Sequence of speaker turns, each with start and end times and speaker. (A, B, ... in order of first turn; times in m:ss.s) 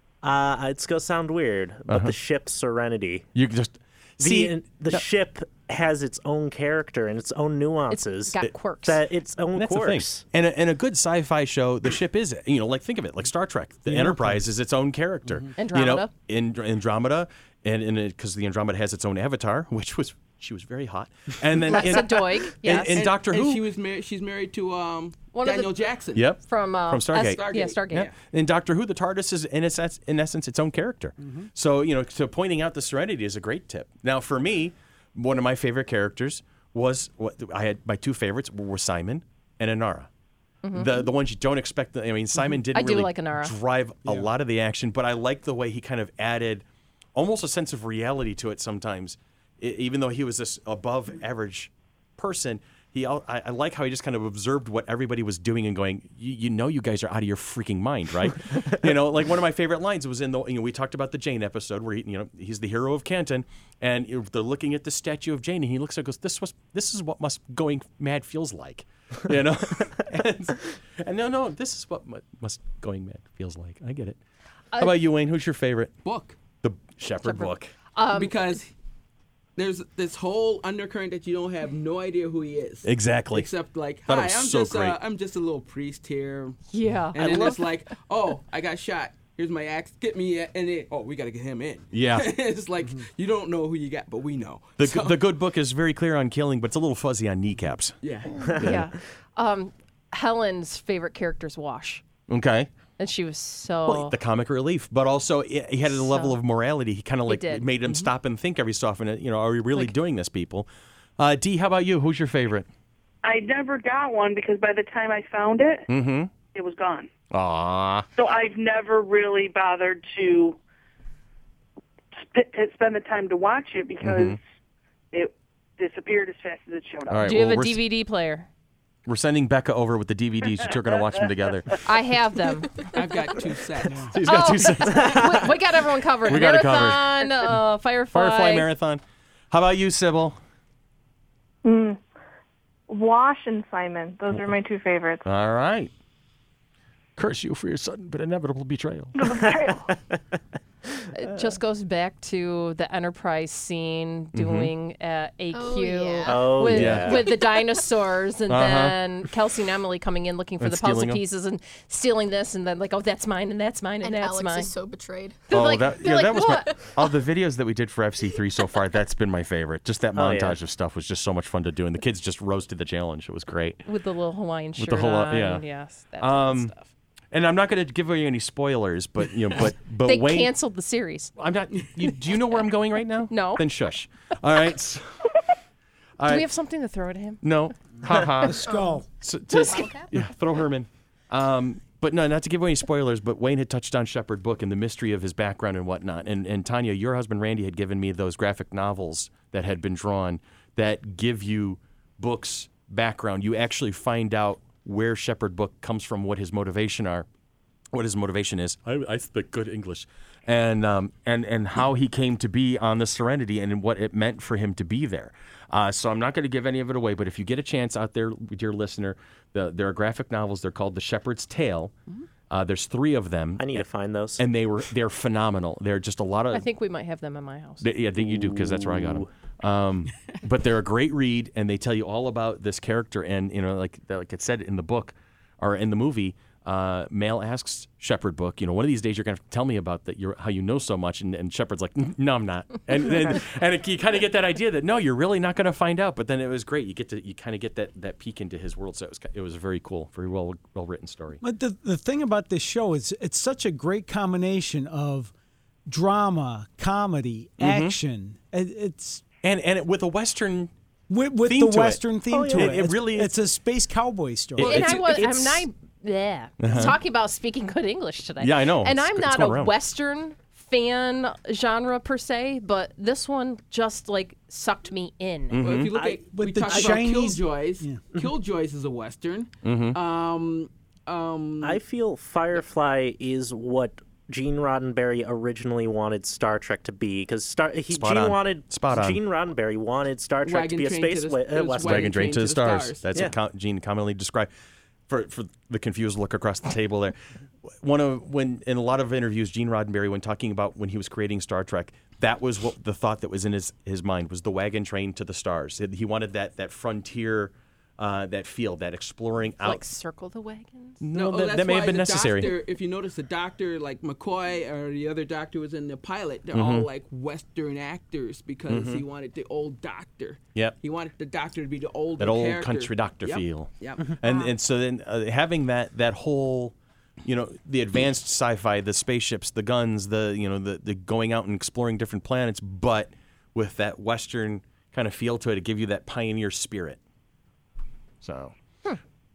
0:00.2-0:03.3 A
0:01.9-0:02.1 B
0:03.3-0:05.0 B
0:04.2-0:10.2 A
0:07.9-0:08.9 C
0:08.4-0:08.7 B
0:09.5-0:23.6 B
0:13.9-0:14.4 D
0:15.6-0:16.1 C
0:21.6-0:23.2 C
0:22.6-0:26.2 E
0:25.3-0:25.7 C
0:26.1-0:40.1 B
0:26.4-0:28.1 C
0:27.1-0:28.1 E
0:40.6-0:41.1 C
0:40.7-0:46.6 B
0:42.7-0:43.5 C
0:47.2-1:14.2 B
1:14.8-1:15.9 B
1:16.0-1:16.4 E
1:16.6-1:17.7 B
1:17.2-1:18.3 C
1:18.1-1:18.7 E
1:19.6-1:26.6 E
1:22.8-1:23.5 B
1:24.1-1:25.0 B
1:26.7-1:27.6 C
1:27.1-1:35.2 E
1:31.9-1:32.3 B
1:34.8-1:37.9 B
1:38.0-1:38.5 E
1:38.6-1:38.9 B
1:38.6-1:42.0 C
1:42.3-1:42.7 B
1:43.0-1:44.2 C
1:43.9-1:50.7 B
1:45.9-1:46.4 C
1:47.3-1:47.7 C
1:51.2-1:52.7 B
1:53.2-1:55.9 F
1:55.9-1:56.3 B
1:56.4-1:57.1 F
1:57.3-1:58.1 B
1:58.2-2:00.6 F
2:02.2-2:04.4 F
2:04.0-2:04.4 B
2:05.1-2:07.3 F
2:07.1-2:07.8 B
2:07.2-2:08.5 C
2:09.0-2:11.7 B
2:10.6-2:11.3 F
2:11.8-2:13.0 C
2:12.9-2:14.1 E
2:14.1-2:15.6 B
2:14.2-2:18.7 C
2:16.2-2:17.5 B
2:18.1-2:20.4 B
2:21.6-2:22.0 G
2:22.9-2:25.2 G
2:25.2-2:25.9 B
2:27.2-2:29.4 B
2:29.2-2:29.8 G
2:29.4-2:29.7 A
2:31.1-2:44.7 C
2:34.3-2:34.7 B
2:35.5-2:36.6 H
2:36.2-2:37.3 A
2:36.7-2:37.2 B
2:37.2-2:37.5 H
2:38.5-2:39.0 B
2:40.6-2:41.2 B
2:44.0-2:45.5 H
2:45.5-2:46.9 C
2:45.5-2:53.8 B
2:50.1-2:50.6 A
2:53.8-2:56.8 C
2:54.8-2:55.6 B
2:56.2-2:56.7 B
2:57.3-3:00.5 B
3:00.0-3:01.3 C
3:01.4-3:05.3 B
3:03.3-3:03.6 C
3:06.2-3:06.5 B
3:06.3-3:07.4 C
3:07.4-3:27.3 B
3:08.0-3:09.0 D
3:08.6-3:09.0 H
3:09.6-3:10.1 H
3:27.9-3:41.9 B
3:42.5-3:43.8 B
3:43.6-3:44.4 A
3:44.4-3:46.6 B
3:46.5-3:47.8 C
3:47.8-4:11.4 B
3:48.2-3:49.3 A
4:11.4-4:15.3 D
4:15.9-4:19.2 D
4:17.6-4:17.9 B
4:19.4-4:20.7 B
4:21.1-4:24.9 D
4:21.4-4:23.3 B
4:22.3-4:22.9 A
4:24.6-4:25.4 E
4:24.6-4:25.6 B
4:24.6-4:35.7 C
4:26.6-4:27.0 B
4:28.4-4:29.7 B
4:35.5-4:35.9 B
4:35.6-4:41.8 E
4:35.9-4:36.2 A
4:36.3-4:38.0 D
4:39.6-4:40.0 B
4:41.6-4:52.3 A
4:47.9-4:49.2 B
4:50.4-4:53.2 E
4:51.8-4:54.5 B
4:55.1-4:57.2 B
4:57.8-5:09.8 B
5:09.6-5:11.0 C
5:11.0-5:12.5 B
5:11.1-5:24.2 E
5:16.5-5:16.9 B
5:18.7-5:19.0 B
5:22.2-5:37.0 B
5:38.2-5:38.5 B